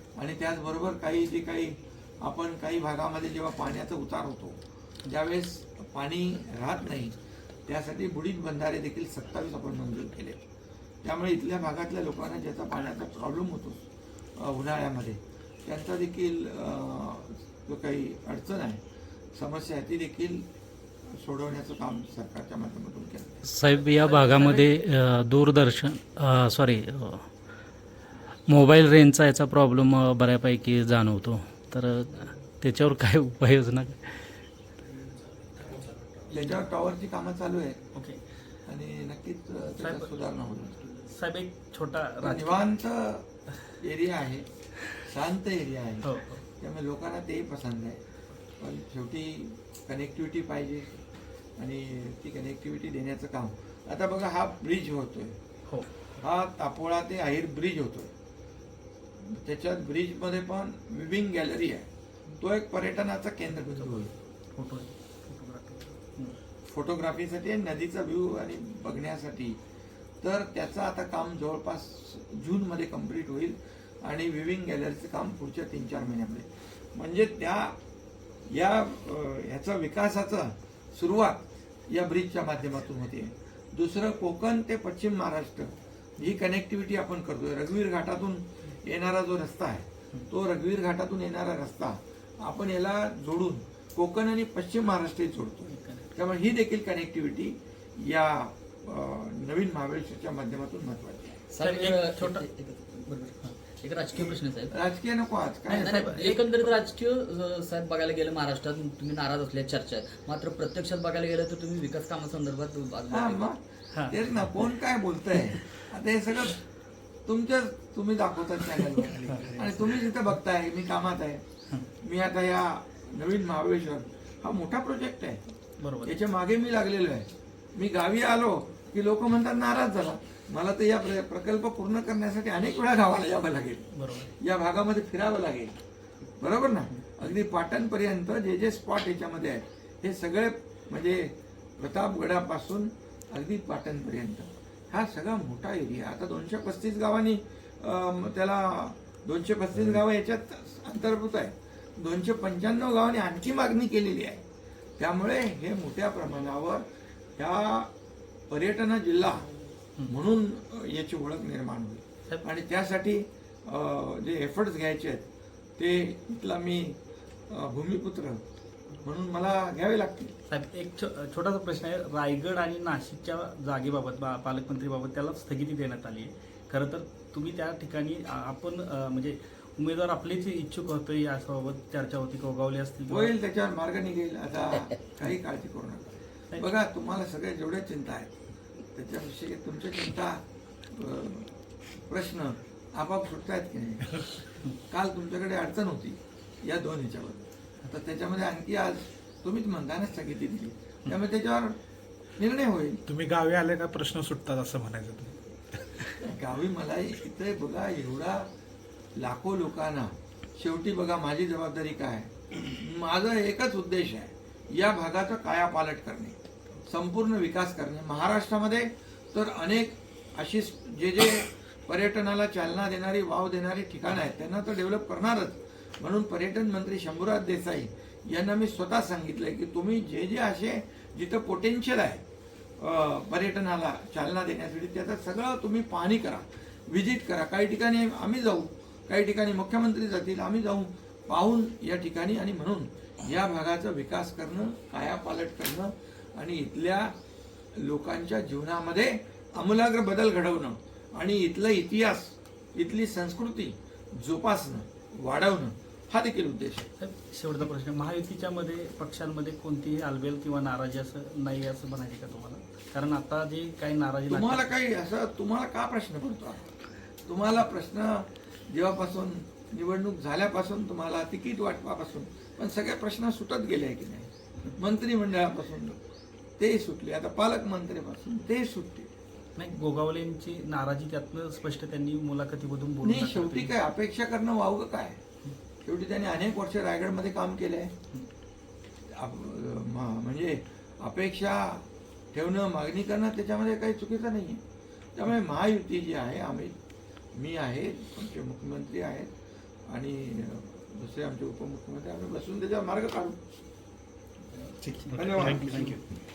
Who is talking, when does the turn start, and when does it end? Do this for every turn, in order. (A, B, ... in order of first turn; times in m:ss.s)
0:00.2-0:10.4 A
0:11.0-0:13.8 A
0:14.4-0:18.8 A
0:19.3-0:20.5 A
0:21.1-0:23.4 A
0:23.5-0:27.3 B
0:28.5-0:34.4 B
0:36.3-0:37.8 A
0:37.9-0:38.2 C
0:38.6-0:40.9 A
0:39.8-0:40.1 C
0:41.0-0:42.6 C
0:42.2-0:43.3 A
0:43.8-0:46.1 A
0:46.0-0:46.4 C
0:46.6-0:48.0 A
0:48.6-0:51.0 A
0:51.6-0:55.4 A
0:56.2-0:58.1 A
0:59.2-1:04.1 A
1:04.5-1:06.4 C
1:06.6-1:09.6 A
1:10.2-1:17.8 A
1:18.5-1:41.4 A
1:35.6-1:36.1 C
1:41.5-1:44.7 D
1:41.6-1:42.4 C
1:44.7-1:46.1 A
1:45.7-1:46.7 C
1:45.7-1:53.5 D
1:53.1-1:56.6 A
1:57.2-2:01.4 A
2:02.0-2:05.4 A
2:05.8-2:06.2 C
2:06.0-2:15.8 A
2:13.9-2:14.3 C
2:16.4-2:34.4 A
2:35.0-2:36.8 A
2:37.4-2:37.9 A
2:38.5-2:39.5 A
2:40.1-2:45.2 A
2:45.8-2:47.0 A
2:47.5-2:48.4 A
2:49.0-2:50.3 A
2:50.5-3:03.3 C
3:03.1-3:08.3 A
3:08.9-3:14.2 A
3:14.9-3:21.8 A
3:22.4-3:23.0 A
3:23.1-3:26.1 E
3:26.2-3:28.5 A
3:29.2-3:52.2 A
3:52.8-4:07.1 A
4:07.8-4:16.9 A
4:17.0-4:24.7 C
4:24.3-4:26.7 A
4:27.2-4:36.0 A
4:36.6-4:39.1 A
4:39.6-4:43.7 C
4:43.0-4:45.2 A
4:45.8-4:47.9 A
4:49.1-4:54.6 A
4:55.1-4:56.8 A
4:57.4-4:59.3 A
4:59.9-5:03.4 A
5:04.8-5:06.0 E
5:04.9-5:06.0 C
5:05.1-5:06.0 A